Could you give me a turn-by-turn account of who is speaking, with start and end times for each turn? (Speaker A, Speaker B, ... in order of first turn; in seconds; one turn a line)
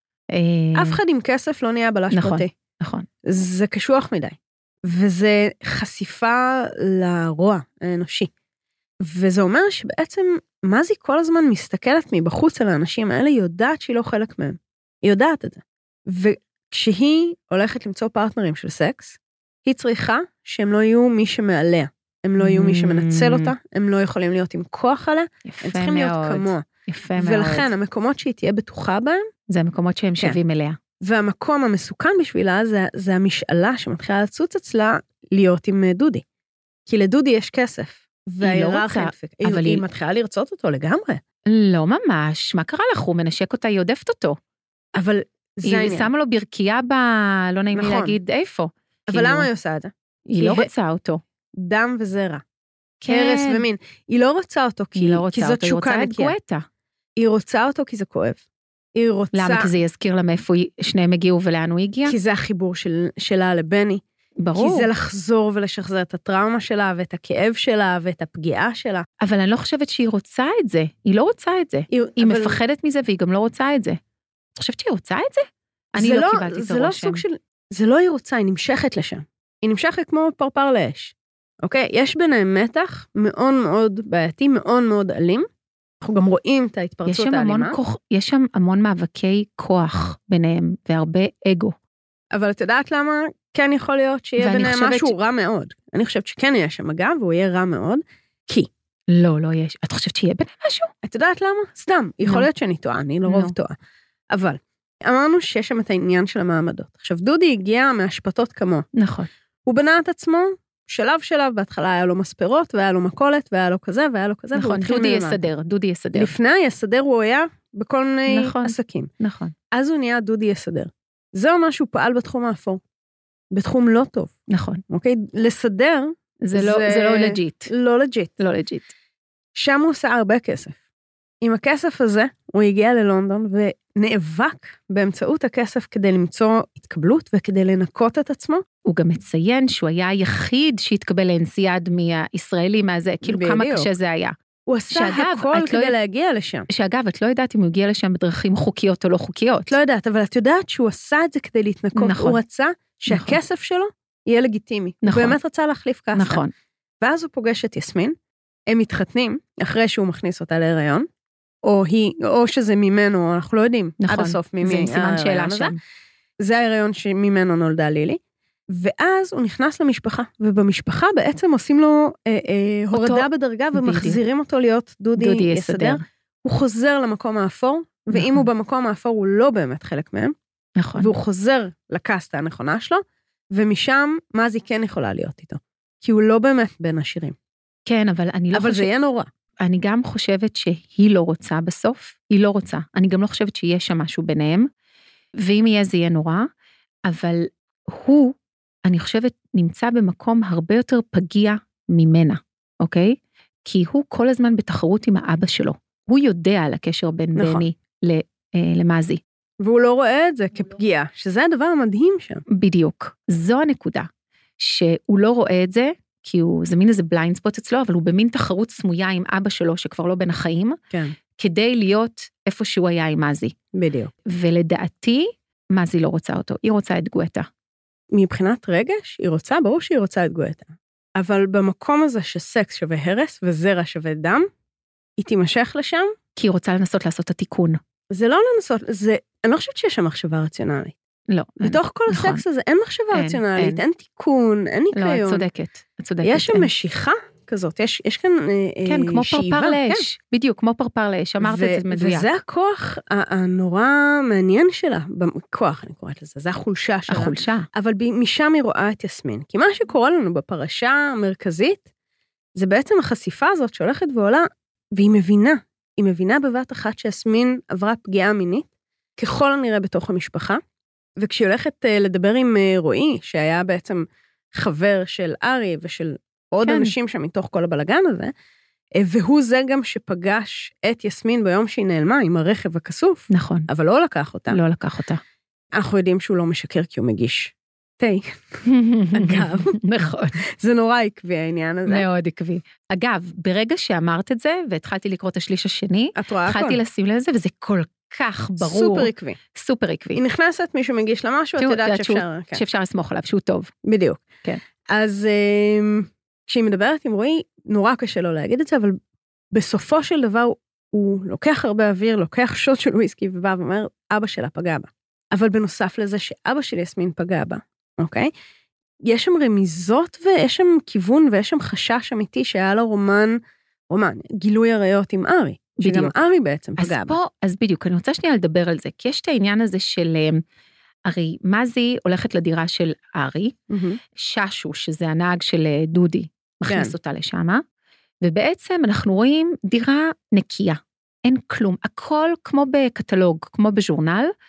Speaker A: 0.3-1.0
Speaker B: 0.8-2.5
Speaker A: 2.1-3.1
Speaker B: 3.3-8.3
Speaker B: 9.0-26.7
Speaker A: 22.4-23.5
Speaker A: 25.4-27.7
Speaker B: 27.2-29.2
Speaker A: 29.5-30.8
Speaker B: 31.0-36.2
Speaker B: 36.9-41.2
Speaker A: 38.4-39.8
Speaker A: 41.5-44.4
Speaker B: 45.0-46.1
Speaker A: 45.6-49.5
Speaker B: 47.8-48.2
Speaker B: 49.1-50.7
Speaker A: 50.3-51.2
Speaker B: 51.6-52.4
Speaker A: 53.0-53.6
Speaker B: 53.1-56.4
Speaker A: 55.0-56.6
Speaker B: 57.2-59.7
Speaker A: 59.3-62.1
Speaker B: 62.1-64.0
Speaker A: 64.4-64.9
Speaker B: 64.5-69.0
Speaker A: 69.2-74.0
Speaker B: 71.9-72.6
Speaker A: 74.6-77.2
Speaker B: 76.0-85.5
Speaker B: 86.0-87.8
Speaker A: 87.1-91.8
Speaker B: 92.3-98.7
Speaker A: 94.4-95.1
Speaker A: 99.1-100.9
Speaker B: 101.0-103.8
Speaker A: 103.3-103.5
Speaker B: 104.3-108.9
Speaker A: 109.0-109.3
Speaker B: 109.7-115.5
Speaker A: 114.5-116.3
Speaker B: 116.2-119.1
Speaker A: 118.3-119.5
Speaker B: 119.7-122.8
Speaker B: 123.5-124.3
Speaker A: 124.5-124.8
Speaker B: 124.9-128.3
Speaker A: 126.4-127.7
Speaker A: 128.4-128.9
Speaker B: 129.6-130.8
Speaker B: 131.4-138.6
Speaker A: 138.8-144.3
Speaker B: 143.2-143.9
Speaker B: 144.7-146.7
Speaker A: 144.9-145.9
Speaker A: 146.7-149.8
Speaker B: 149.7-156.4
Speaker A: 152.0-152.4
Speaker A: 153.1-153.4
Speaker A: 155.0-155.4
Speaker A: 156.1-156.5
Speaker B: 157.0-158.1
Speaker B: 158.7-161.1
Speaker B: 161.6-165.8
Speaker A: 164.0-165.8
Speaker B: 166.4-180.3
Speaker A: 172.9-174.2
Speaker A: 175.2-176.0
Speaker A: 178.1-178.5
Speaker A: 180.8-181.1
Speaker B: 181.0-183.0
Speaker B: 183.5-187.4
Speaker A: 187.9-188.9
Speaker B: 188.5-189.3
Speaker A: 189.6-194.7
Speaker A: 195.4-196.5
Speaker A: 197.1-209.2
Speaker B: 207.4-207.6
Speaker B: 209.6-212.4
Speaker A: 212.5-214.1
Speaker A: 214.6-220.8
Speaker A: 221.3-223.6
Speaker B: 223.7-224.1
Speaker A: 224.3-227.5
Speaker B: 228.1-234.5
Speaker B: 235.2-236.1
Speaker A: 236.4-237.8
Speaker B: 238.1-240.9
Speaker A: 241.3-242.4
Speaker B: 241.6-245.5
Speaker A: 243.1-243.8
Speaker A: 244.9-246.7
Speaker B: 246.2-250.1
Speaker A: 248.9-252.3
Speaker B: 251.4-261.8
Speaker A: 257.1-257.7
Speaker B: 262.6-270.6
Speaker B: 271.2-278.3
Speaker A: 276.6-276.9
Speaker B: 279.0-284.6
Speaker A: 283.3-283.7
Speaker A: 284.5-285.2
Speaker B: 285.8-288.4
Speaker A: 288.6-290.4
Speaker B: 289.1-289.8
Speaker B: 290.5-292.1
Speaker A: 291.9-300.2
Speaker B: 296.1-296.8
Speaker B: 298.6-299.4
Speaker B: 300.1-302.6
Speaker A: 301.6-303.7
Speaker B: 303.8-304.3
Speaker B: 304.9-309.0
Speaker B: 309.5-318.3
Speaker B: 319.1-323.4
Speaker B: 323.9-327.2
Speaker A: 325.8-326.1
Speaker A: 326.8-330.4
Speaker A: 331.1-333.6
Speaker B: 333.7-334.0
Speaker A: 334.1-337.6
Speaker B: 336.6-336.9
Speaker A: 338.2-344.3